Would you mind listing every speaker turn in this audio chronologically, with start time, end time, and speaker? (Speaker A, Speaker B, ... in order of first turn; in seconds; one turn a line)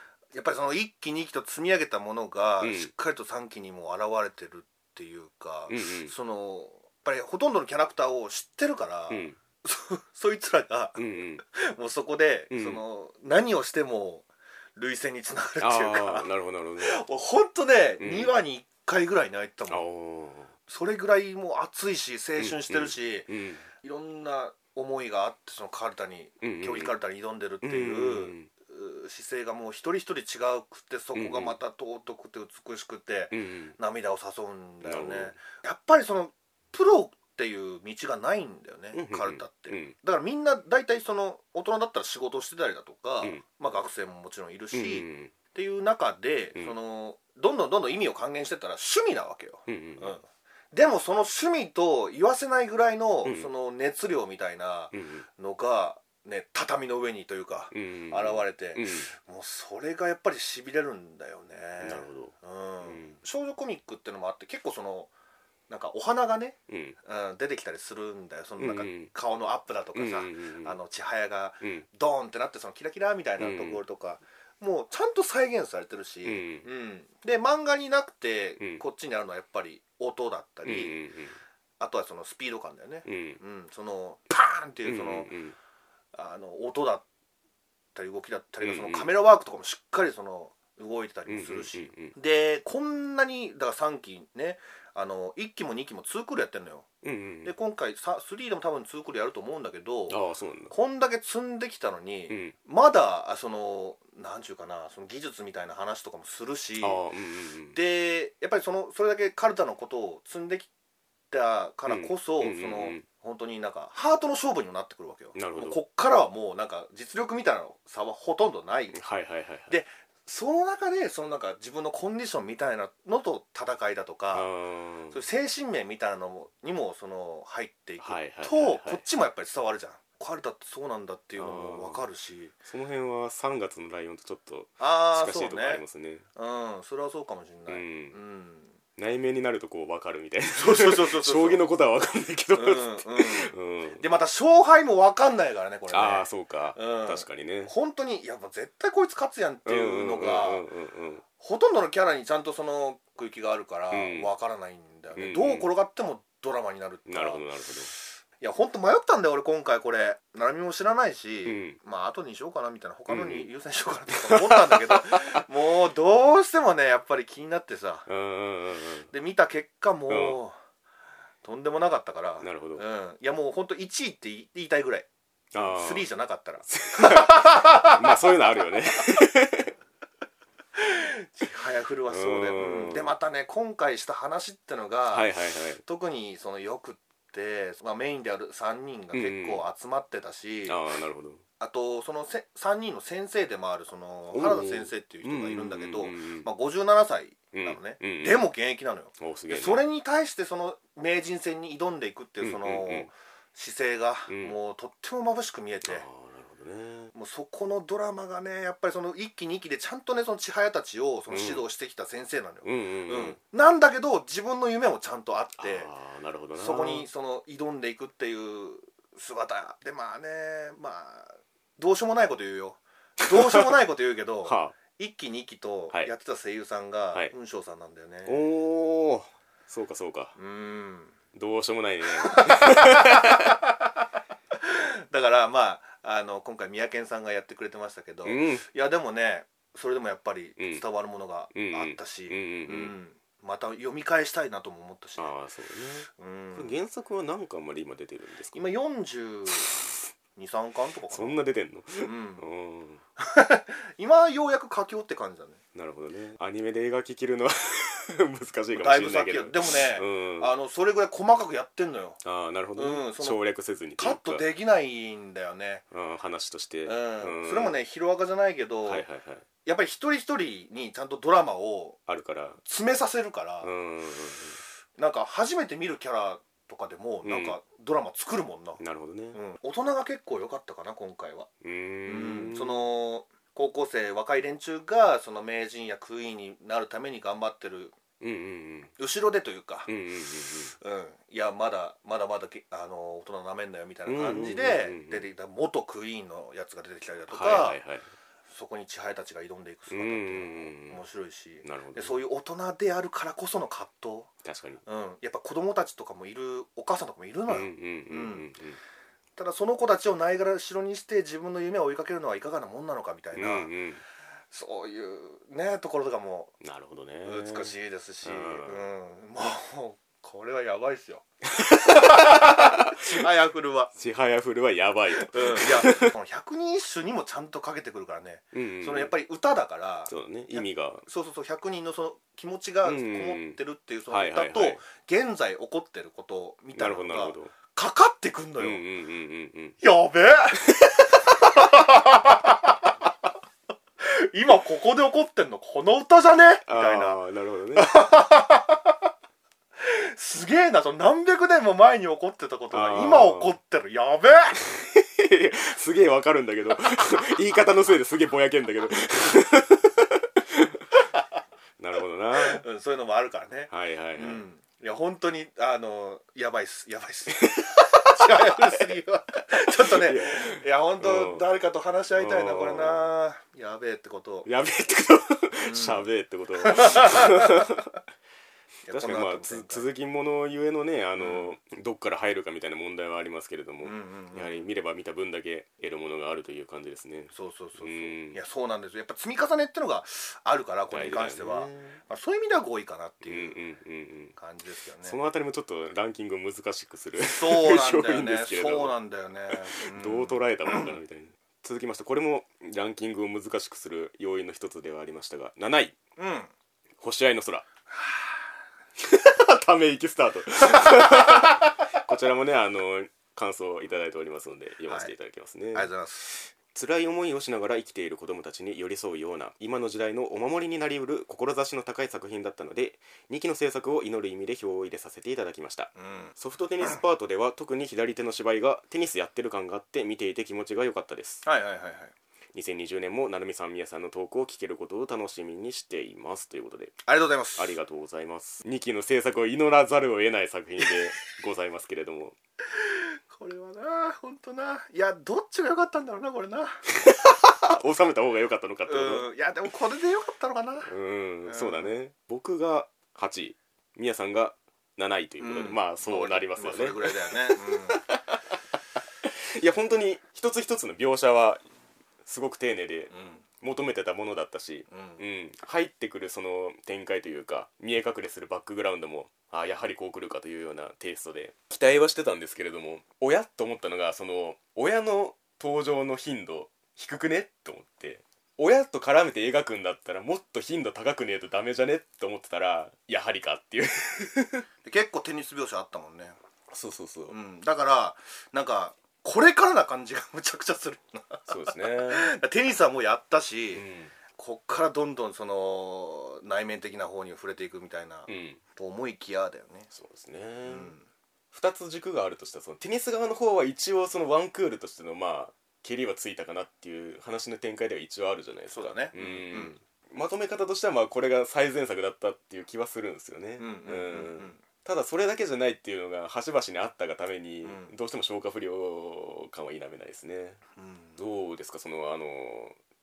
Speaker A: 0.3-19.9
Speaker B: 2.6-2.9
Speaker B: 5.7-6.2
Speaker B: 9.1-9.4
Speaker B: 11.0-11.4
Speaker B: 12.5-12.8
Speaker B: 15.6-17.0
Speaker B: 18.0-18.3
Speaker B: 19.7-20.5
Speaker A: 20.7-65.1
Speaker B: 22.4-23.7
Speaker B: 26.4-26.9
Speaker B: 27.6-28.5
Speaker B: 31.1-31.6
Speaker B: 33.3-33.8
Speaker B: 34.8-35.4
Speaker B: 38.9-40.0
Speaker B: 44.7-45.4
Speaker B: 49.7-50.2
Speaker B: 53.2-53.5
Speaker B: 54.9-55.3
Speaker B: 57.7-59.1
Speaker B: 61.8-63.2
Speaker A: 65.7-81.0
Speaker B: 66.7-67.0
Speaker B: 68.6-69.1
Speaker B: 69.9-70.8
Speaker B: 73.4-73.8
Speaker B: 76.2-76.7
Speaker B: 80.6-81.4
Speaker A: 81.8-85.3
Speaker B: 83.1-83.4
Speaker B: 84.8-85.6
Speaker A: 86.1-87.0
Speaker A: 88.0-96.9
Speaker B: 88.6-89.1
Speaker B: 91.3-92.2
Speaker B: 97.0-97.5
Speaker A: 97.4-100.2
Speaker B: 100.1-100.7
Speaker A: 100.7-107.0
Speaker B: 102.3-102.6
Speaker B: 106.8-107.8
Speaker A: 107.8-110.7
Speaker A: 111.3-119.0
Speaker B: 111.9-113.1
Speaker B: 115.3-115.8
Speaker B: 118.9-119.8
Speaker A: 119.7-124.5
Speaker B: 124.3-125.2
Speaker A: 125.1-132.5
Speaker B: 128.0-129.0
Speaker B: 131.4-132.1
Speaker B: 132.6-136.3
Speaker A: 134.8-135.8
Speaker A: 136.3-138.8
Speaker B: 137.7-138.2
Speaker B: 139.0-144.0
Speaker A: 140.5-141.6
Speaker A: 142.6-150.7
Speaker B: 145.9-147.7
Speaker B: 149.7-151.2
Speaker A: 151.4-157.4
Speaker B: 153.9-154.3
Speaker B: 155.2-155.7
Speaker B: 157.1-157.9
Speaker A: 158.4-168.1
Speaker B: 161.4-161.8
Speaker B: 163.1-163.5
Speaker B: 164.2-165.4
Speaker B: 168.1-169.1
Speaker A: 169.1-170.6
Speaker B: 170.1-170.4
Speaker A: 171.4-175.1
Speaker B: 172.4-172.8
Speaker B: 175.5-176.1
Speaker A: 175.6-178.4
Speaker B: 176.7-179.7
Speaker A: 180.8-185.3
Speaker B: 182.1-183.1
Speaker B: 185.1-185.8
Speaker A: 185.8-190.8
Speaker B: 189.1-189.7
Speaker B: 190.7-191.4
Speaker A: 191.6-206.1
Speaker B: 194.3-196.5
Speaker B: 197.5-198.4
Speaker B: 199.2-199.8
Speaker B: 202.4-203.1
Speaker B: 204.3-204.6
Speaker B: 205.9-207.1
Speaker A: 207.1-215.9
Speaker B: 211.3-211.6
Speaker B: 212.6-213.4
Speaker B: 215.6-217.1
Speaker A: 216.6-228.4
Speaker B: 223.2-223.8
Speaker B: 224.4-224.8
Speaker B: 228.3-230.3
Speaker A: 230.4-231.2
Speaker B: 231.3-233.6
Speaker A: 232.2-233.9
Speaker A: 234.5-245.3
Speaker B: 238.2-238.7
Speaker B: 240.6-240.8
Speaker B: 241.5-243.0
Speaker B: 245.2-248.7
Speaker A: 246.1-246.7
Speaker A: 248.5-249.7
Speaker A: 250.4-251.4
Speaker B: 251.1-253.0
Speaker A: 252.0-252.5
Speaker A: 253.2-255.6
Speaker B: 255.8-260.5
Speaker A: 258.7-262.2
Speaker B: 262.2-264.5
Speaker A: 262.8-263.4
Speaker A: 264.0-265.8
Speaker B: 265.9-267.8
Speaker A: 266.9-269.1
Speaker B: 268.9-269.4
Speaker A: 269.6-272.0
Speaker B: 272.1-272.6
Speaker A: 272.6-273.7
Speaker B: 273.6-274.6
Speaker A: 275.0-278.8
Speaker B: 277.2-277.6
Speaker B: 278.8-279.4
Speaker A: 279.3-281.5
Speaker B: 281.6-282.9
Speaker A: 282.1-288.0
Speaker B: 288.2-288.9
Speaker A: 289.0-289.9
Speaker B: 289.9-290.8
Speaker A: 290.8-297.8
Speaker B: 294.1-295.3
Speaker B: 297.3-298.1
Speaker A: 298.5-304.3
Speaker B: 299.9-301.1
Speaker B: 301.6-302.2
Speaker B: 304.4-304.8
Speaker A: 304.9-308.5
Speaker B: 307.5-308.8
Speaker A: 309.4-313.7
Speaker B: 313.4-314.0
Speaker A: 314.5-316.5
Speaker B: 316.6-318.9
Speaker A: 317.2-323.9
Speaker B: 321.5-323.1
Speaker B: 324.0-326.1
Speaker A: 325.2-338.8
Speaker B: 328.5-329.1
Speaker B: 330.1-331.1
Speaker B: 332.8-334.8
Speaker B: 336.8-337.5
Speaker B: 338.6-339.8
Speaker A: 339.8-343.1
Speaker A: 344.0-347.2
Speaker B: 346.7-348.0
Speaker A: 347.8-349.1
Speaker A: 349.8-354.6
Speaker B: 352.7-353.6
Speaker B: 354.7-360.9
Speaker B: 361.8-362.6
Speaker A: 362.4-374.5
Speaker B: 363.7-364.4
Speaker B: 367.4-368.9
Speaker B: 369.8-371.5
Speaker B: 372.2-373.1
Speaker B: 374.4-377.9
Speaker A: 375.6-376.1
Speaker A: 376.6-377.7
Speaker A: 378.9-379.9
Speaker B: 378.9-388.4
Speaker A: 381.2-381.5
Speaker A: 383.8-384.7
Speaker A: 387.3-393.6
Speaker B: 390.9-392.0
Speaker B: 393.2-394.4
Speaker A: 394.4-395.2
Speaker B: 395.0-399.0
Speaker A: 397.2-400.9
Speaker B: 399.5-406.0
Speaker A: 406.2-406.5
Speaker B: 407.0-407.7
Speaker A: 407.9-408.5
Speaker B: 409.0-431.5
Speaker A: 410.7-411.5
Speaker A: 414.9-415.1
Speaker A: 415.7-416.3
Speaker A: 426.0-427.0
Speaker A: 431.4-432.1
Speaker B: 432.5-437.0
Speaker A: 437.1-437.8
Speaker B: 437.6-442.4
Speaker A: 442.7-446.8
Speaker B: 446.9-449.3
Speaker A: 448.9-450.9
Speaker B: 450.9-458.6
Speaker A: 451.5-451.9
Speaker A: 455.4-458.0
Speaker B: 459.2-461.6
Speaker B: 462.2-484.7
Speaker A: 463.1-463.4
Speaker A: 464.9-465.2
Speaker A: 484.9-486.4
Speaker B: 486.7-487.4
Speaker A: 487.3-499.9
Speaker B: 491.5-492.3
Speaker B: 493.7-494.2
Speaker B: 498.3-498.6
Speaker B: 499.9-501.0
Speaker A: 500.7-501.1
Speaker B: 501.5-520.6
Speaker A: 508.7-509.8
Speaker A: 513.6-514.6
Speaker A: 517.6-517.9
Speaker A: 520.8-521.2
Speaker B: 521.2-522.8